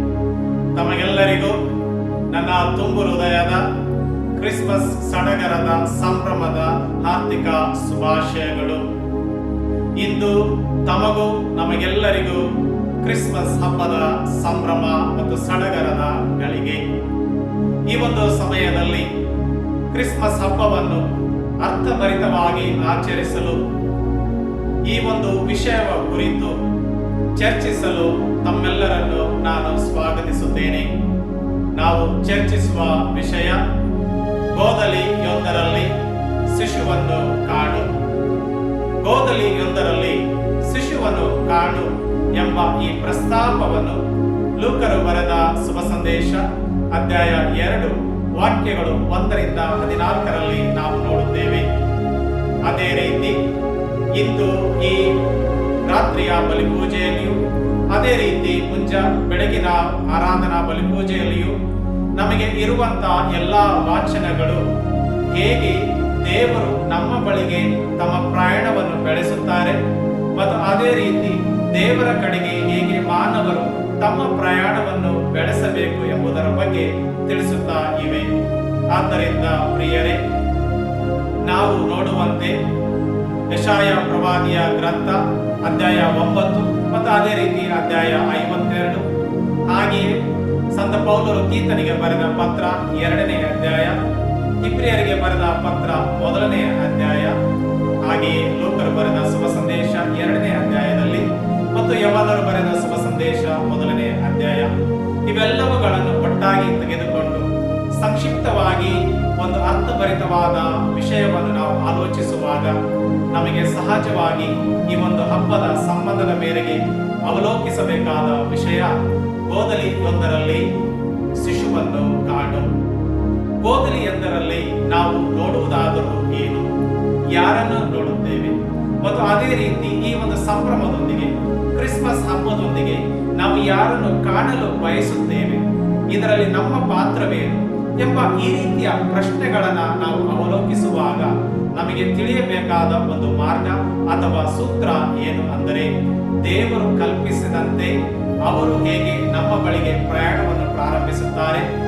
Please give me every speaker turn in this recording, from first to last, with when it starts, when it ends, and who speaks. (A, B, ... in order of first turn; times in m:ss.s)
0:00.8-0:01.6 A
0:02.3-0:03.6 A
0:04.4-0:08.9 A
0:10.0-0:12.4 A
0:13.0-0:16.8 A
0:17.9-0:19.1 A
0:19.9-0:21.0 A
0:21.6-0:23.6 A
0:24.9-0:26.6 A
0:27.4-0:30.9 A
0:31.8-0:33.6 A
0:34.5-0:35.9 A
0:36.5-0:37.9 A
0:39.0-0:44.0 A
0:44.6-0:51.7 A
0:52.7-0:53.4 A
0:54.2-0:55.1 A
0:55.9-0:57.4 A
0:57.9-1:01.5 A
1:02.2-1:04.6 A
1:05.3-1:09.8 A
1:10.4-1:18.3 A
1:18.9-1:20.2 A
1:21.5-1:22.6 A
1:23.5-1:29.0 A
1:29.7-1:30.2 A
1:30.7-1:34.0 A
1:34.6-1:37.3 A
1:38.0-1:44.7 A
1:45.3-1:52.8 A
1:53.3-1:59.0 A
1:59.5-2:00.6 A
2:01.4-2:02.7 A
2:03.6-2:06.7 A
2:07.3-2:25.9 A
2:26.4-2:27.9 A
2:28.4-2:31.7 A